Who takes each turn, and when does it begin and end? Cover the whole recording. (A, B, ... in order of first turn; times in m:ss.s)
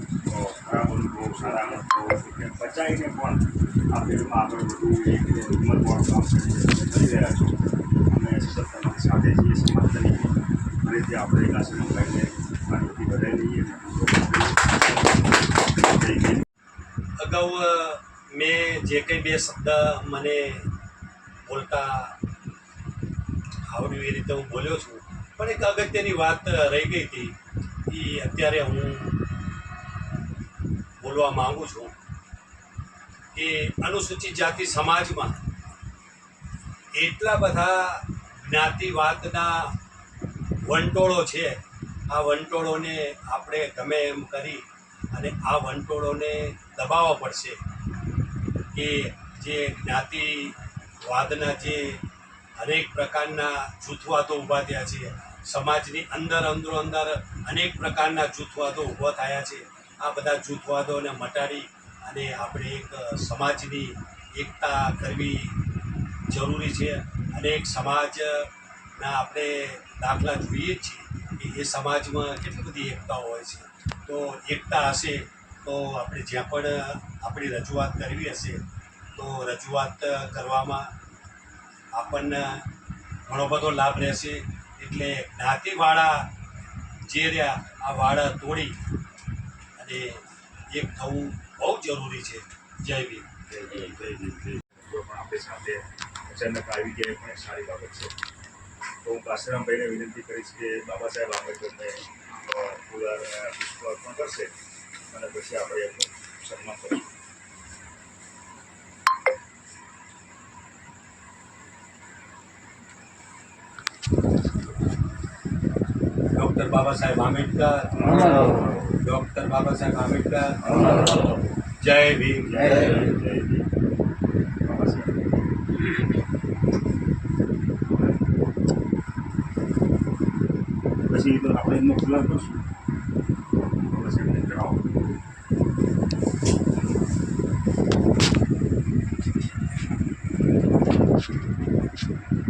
0:00.2-0:14.8 A
0:15.8-0:16.5 A
0:17.2-0:20.7 B
0:21.5-0:22.2 B
0:23.7-0:29.2 B
0:31.0-0:32.0 B
0:33.3-0:35.4 B
0:36.9-0:39.8 B
0:40.6-0:47.6 B
0:48.7-0:52.1 B
0:52.6-1:05.6 B
1:06.3-1:18.6 B
1:19.1-1:20.9 B
1:21.9-1:22.7 B
1:23.3-1:26.3 B
1:27.1-1:28.8 B
1:29.8-1:33.3 B
1:33.5-1:38.1 A
1:39.0-1:44.5 A
1:45.1-1:47.1 A
1:56.3-2:01.3 B
1:58.0-1:58.9 A
2:00.6-2:01.4 A
2:01.8-2:03.0 B
2:02.4-2:03.7 A
2:04.6-2:05.3 A
2:11.1-2:12.6 A
2:13.7-2:14.8 A